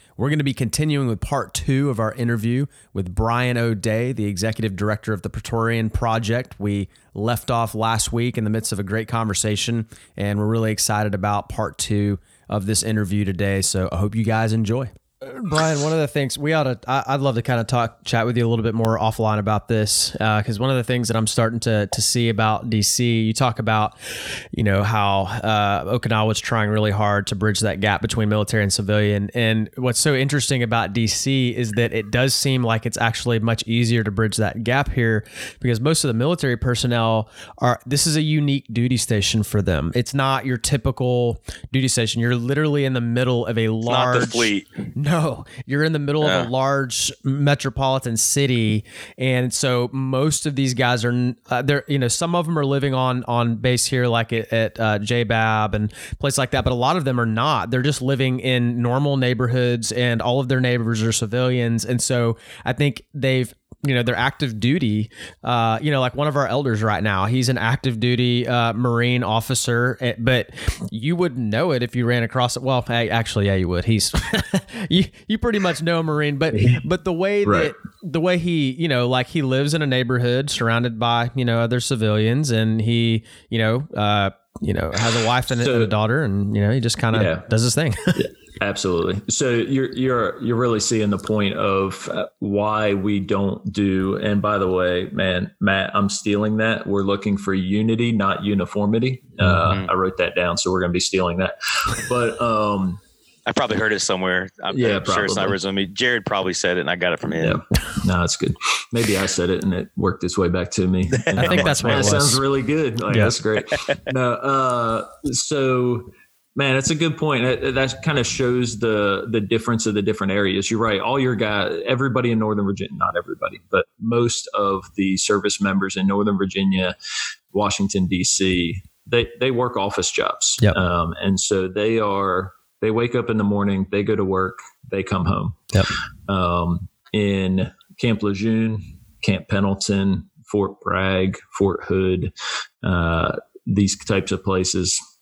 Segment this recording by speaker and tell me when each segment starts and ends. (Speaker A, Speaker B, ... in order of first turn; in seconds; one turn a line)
Speaker A: 0.2-24.0
Speaker A: 24.5-88.3
Speaker B: 43.9-44.7
Speaker B: 46.2-46.5
Speaker C: 77.5-77.7
Speaker C: 85.6-85.9
Speaker C: 87.1-87.5
Speaker C: 88.2-103.0
Speaker B: 99.7-99.9
Speaker B: 103.5-107.6
Speaker C: 104.7-105.6
Speaker C: 107.4-126.9
Speaker B: 111.1-112.2
Speaker A: 111.4-112.4
Speaker A: 113.1-113.3
Speaker C: 127.5-135.6
Speaker C: 136.3-142.3
Speaker C: 142.8-145.0